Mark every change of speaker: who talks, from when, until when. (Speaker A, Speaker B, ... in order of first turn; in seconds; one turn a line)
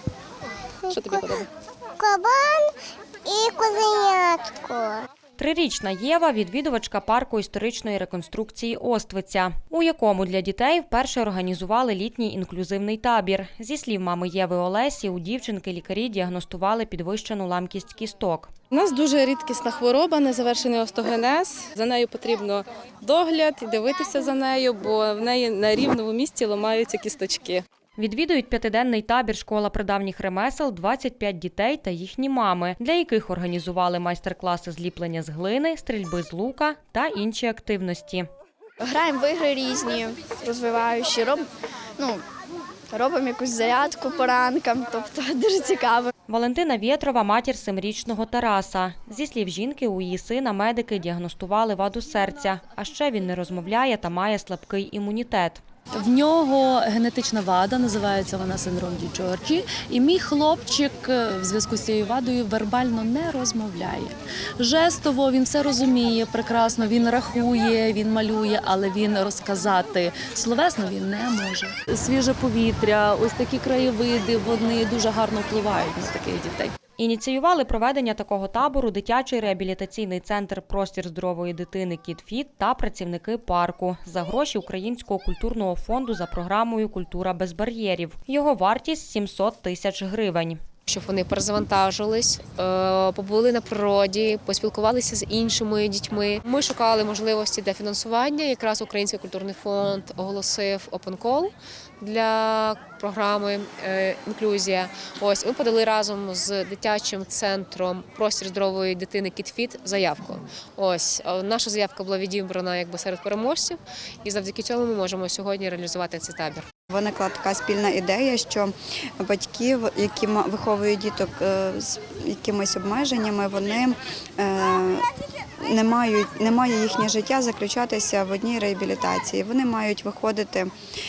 Speaker A: 0.9-1.4
Speaker B: 0.9-1.4
Speaker A: 2.0-2.7
Speaker A: 3.2-5.0
Speaker C: 5.4-18.5
Speaker B: 18.7-27.6
Speaker C: 28.0-38.3
Speaker D: 38.8-42.2
Speaker D: 42.9-46.1
Speaker C: 46.3-55.6
Speaker E: 56.0-76.7
Speaker C: 77.0-90.6
Speaker F: 90.9-116.7
Speaker G: 116.9-125.0
Speaker G: 125.6-130.7